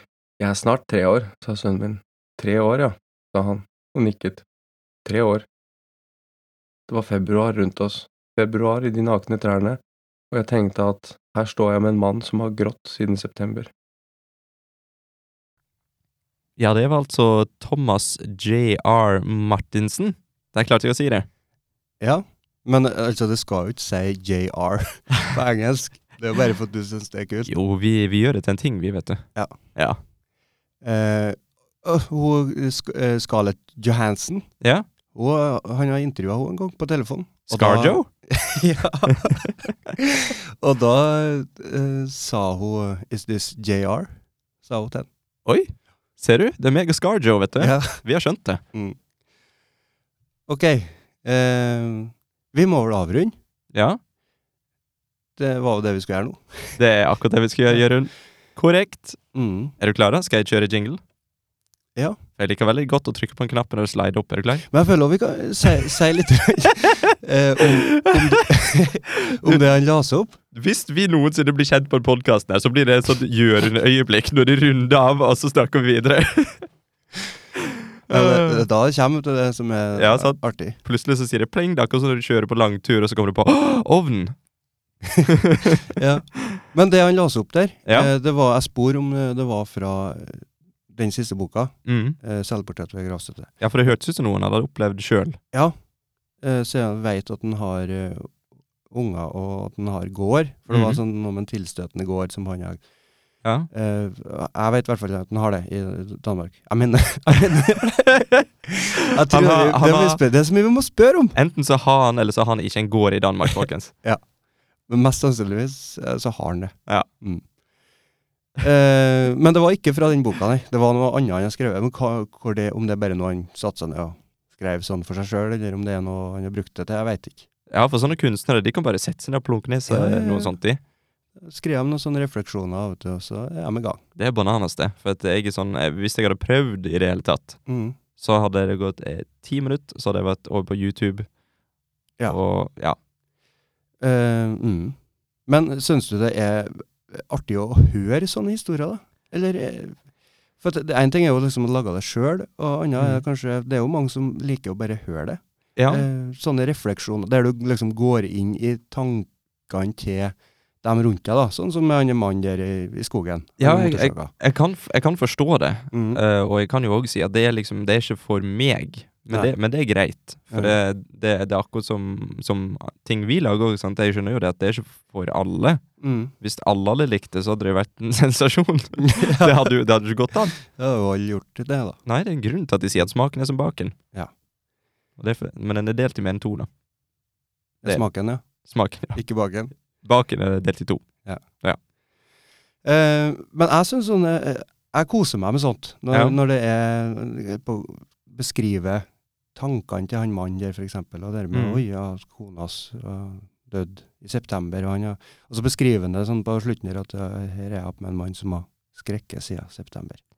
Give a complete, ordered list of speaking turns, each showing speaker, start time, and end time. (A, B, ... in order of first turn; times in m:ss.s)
0:00.4-0:04.4 A
0:05.0-0:05.4 A
0:06.9-0:09.8 A
0:10.3-0:13.7 A
0:16.6-0:21.3 B
0:22.0-0:27.5 C
0:27.5-0:30.0 B
0:30.8-0:34.5 C
0:34.6-0:34.9 B
0:35.1-0:45.1 C
0:37.5-0:38.1 B
0:45.4-0:48.6 B
0:47.6-0:48.0 C
0:48.7-0:49.0 C
0:50.5-0:53.3 C
0:53.7-0:54.0 B
0:55.4-0:56.8 C
0:56.8-0:59.2 B
0:59.3-0:59.7 C
0:59.8-1:01.0 B
1:02.4-1:04.7 B
1:04.7-1:10.4 C
1:07.6-1:08.5 B
1:09.1-1:09.6 B
1:10.5-1:16.7 B
1:18.1-1:18.6 B
1:18.1-1:20.8 C
1:20.0-1:24.4 B
1:25.1-1:33.6 C
1:25.2-1:26.0 B
1:27.9-1:28.1 B
1:31.9-1:32.2 B
1:33.6-1:35.4 B
1:36.4-1:38.4 C
1:38.9-1:42.8 C
1:40.7-1:41.0 B
1:43.4-1:43.7 B
1:43.7-1:51.4 C
1:48.1-1:50.2 B
1:51.4-1:53.9 B
1:54.9-1:57.4 C
1:58.6-2:07.5 C
2:07.7-2:10.8 B
2:09.9-2:10.6 C
2:11.4-2:14.0 C
2:14.2-2:17.6 B
2:17.7-2:18.0 C
2:18.2-2:21.3 B
2:22.3-2:23.0 B
2:24.0-2:25.0 C
2:25.5-2:30.0 C
2:30.6-2:44.3 C
2:35.8-2:36.1 B
2:43.6-2:55.8 B
2:45.9-2:46.2 C
2:56.0-2:56.3 C
2:56.4-3:00.6 B
2:59.0-2:59.7 C
3:00.6-3:02.0 C
3:02.1-3:04.0 B
3:05.2-3:06.7 B
3:07.8-3:08.4 C
3:08.6-3:09.2 B
3:09.2-3:09.7 C
3:10.0-3:11.0 B
3:12.8-3:30.2 C
3:16.1-3:16.4 B
3:21.5-3:21.8 B